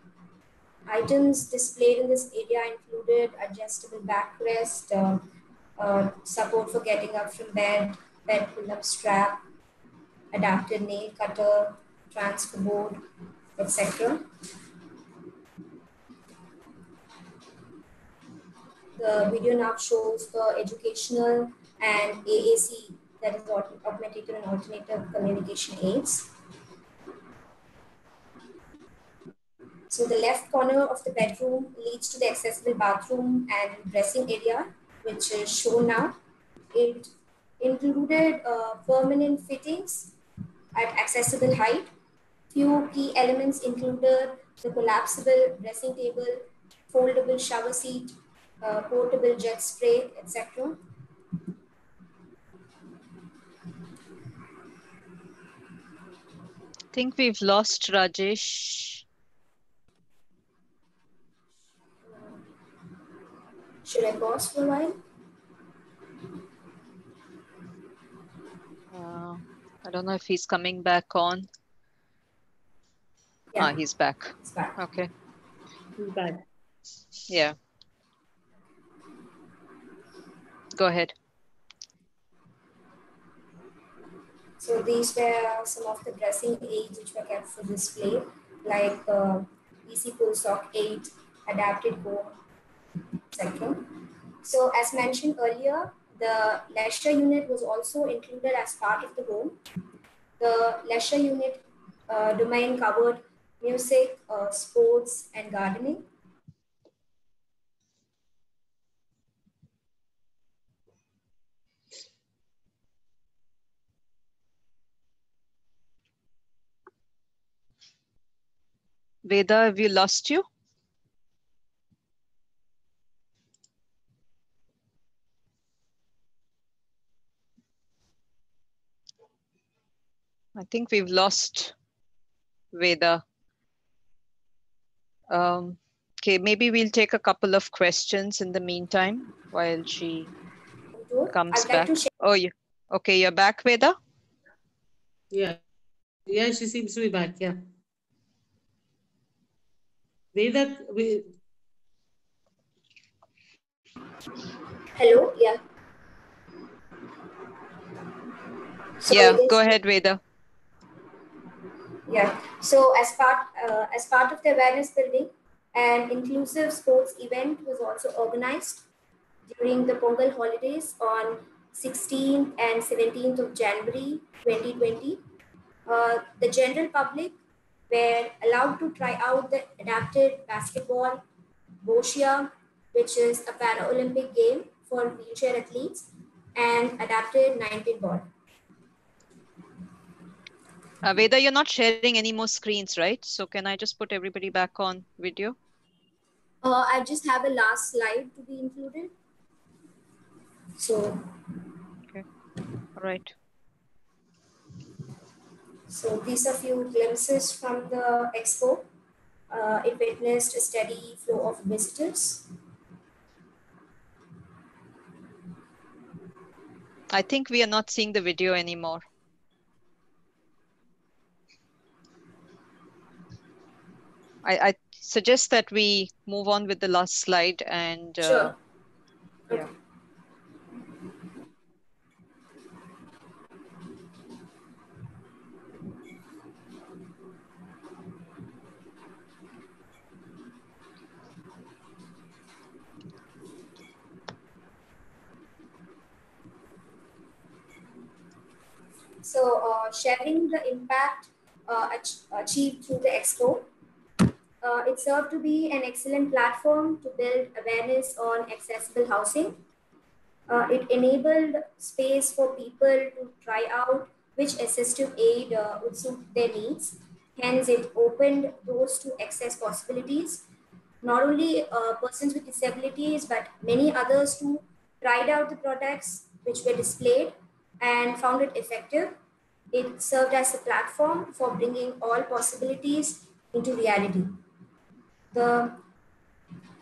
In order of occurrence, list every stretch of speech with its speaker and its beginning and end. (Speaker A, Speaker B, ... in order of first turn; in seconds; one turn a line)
Speaker A: 0.9-5.2
Speaker A: 5.8-9.4
Speaker A: 10.3-13.0
Speaker A: 13.6-14.3
Speaker A: 19.0-26.3
Speaker A: 29.9-36.2
Speaker A: 36.7-40.1
Speaker A: 40.7-41.9
Speaker A: 42.5-50.8
Speaker B: 56.9-59.0
Speaker A: 62.1-62.4
Speaker A: 63.9-65.0
Speaker B: 68.9-71.5
Speaker B: 73.6-75.1
Speaker A: 74.4-74.8
Speaker C: 76.0-76.4
Speaker B: 77.3-77.6
Speaker B: 80.8-81.2
Speaker A: 84.6-92.3
Speaker A: 93.3-99.6
Speaker A: 100.4-106.1
Speaker B: 119.2-120.5
Speaker B: 130.6-131.7
Speaker B: 132.7-133.2
Speaker B: 135.3-140.3
Speaker A: 141.0-142.1
Speaker B: 141.3-144.0
Speaker C: 145.3-145.6
Speaker C: 146.3-147.6
Speaker C: 150.3-151.3
Speaker A: 154.9-155.6
Speaker A: 159.0-159.8
Speaker B: 159.1-160.2
Speaker A: 162.1-168.8
Speaker A: 169.5-175.2
Speaker A: 175.9-177.4
Speaker A: 177.9-181.2
Speaker A: 181.8-188.3
Speaker B: 191.0-195.6
Speaker A: 196.6-199.1
Speaker A: 200.8-201.4
Speaker B: 203.0-203.3
Speaker A: 205.9-208.9
Speaker A: 209.5-212.5
Speaker B: 217.1-219.1
Speaker B: 224.4-228.6
Speaker A: 228.2-228.6
Speaker A: 249.2-253.7
Speaker A: 254.6-259.6
Speaker A: 260.5-270.4
Speaker A: 271.0-279.2
Speaker A: 279.7-284.4
Speaker A: 285.3-285.8